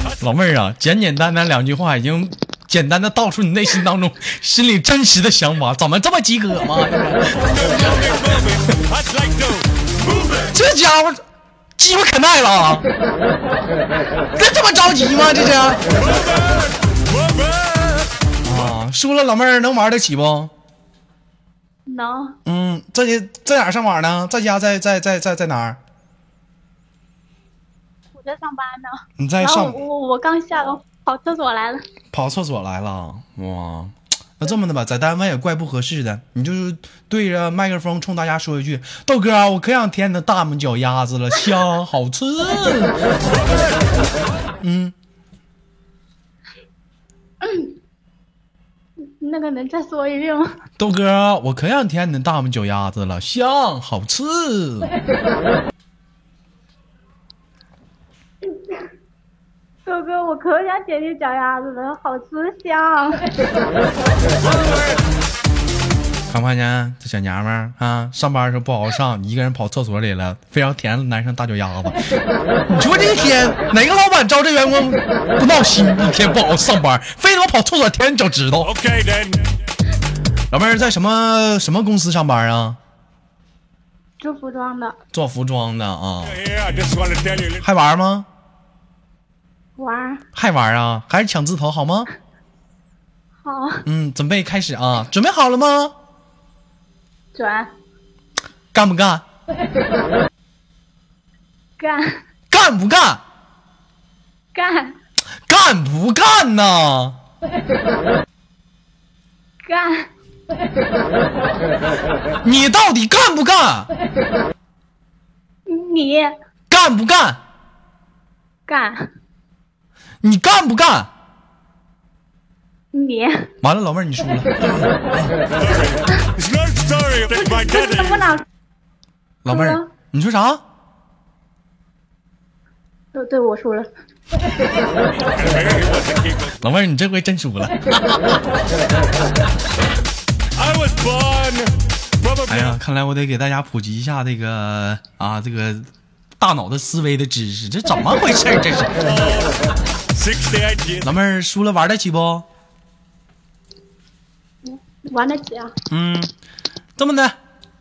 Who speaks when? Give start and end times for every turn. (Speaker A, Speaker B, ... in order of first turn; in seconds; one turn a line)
Speaker A: 0.2-7.5
Speaker B: 7.5-9.7
Speaker A: 10.3-11.2
Speaker A: 11.8-12.9
Speaker A: 14.3-15.8
Speaker B: 16.1-18.1
Speaker A: 18.4-20.5
Speaker C: 21.9-22.4
Speaker A: 22.4-25.8
Speaker C: 28.1-31.8
Speaker A: 29.2-29.8
Speaker A: 32.1-43.0
Speaker A: 44.6-44.9
Speaker C: 47.4-47.7
Speaker C: 49.1-50.5
Speaker A: 50.8-54.9
Speaker C: 59.8-63.2
Speaker A: 66.3-72.0
Speaker A: 72.7-78.7
Speaker B: 78.6-79.5
Speaker A: 80.5-82.8
Speaker C: 84.2-85.0
Speaker A: 85.1-86.4
Speaker B: 86.3-87.6
Speaker A: 87.6-88.3
Speaker C: 89.8-90.2
Speaker A: 90.3-92.1
Speaker C: 93.4-93.8
Speaker A: 93.8-95.9
Speaker C: 97.3-97.7
Speaker A: 98.7-99.2
Speaker C: 101.8-102.2
Speaker A: 102.5-103.2
Speaker C: 104.5-105.0
Speaker A: 105.5-107.2
Speaker C: 109.6-110.1
Speaker A: 112.4-113.9
Speaker C: 115.7-116.3
Speaker A: 116.7-117.4
Speaker C: 118.7-119.1
Speaker A: 120.2-121.1
Speaker C: 122.9-123.5
Speaker A: 123.6-125.3
Speaker B: 125.6-128.2
Speaker C: 127.3-128.4
Speaker A: 129.4-130.6
Speaker C: 129.5-129.9
Speaker C: 133.1-133.9
Speaker B: 135.3-136.5
Speaker A: 136.6-138.4
Speaker B: 140.6-142.7
Speaker A: 142.5-145.9
Speaker A: 146.4-149.0
Speaker B: 149.1-149.6
Speaker B: 150.1-151.1
Speaker A: 151.0-152.4
Speaker C: 154.6-155.7
Speaker A: 155.9-156.3
Speaker A: 157.0-157.3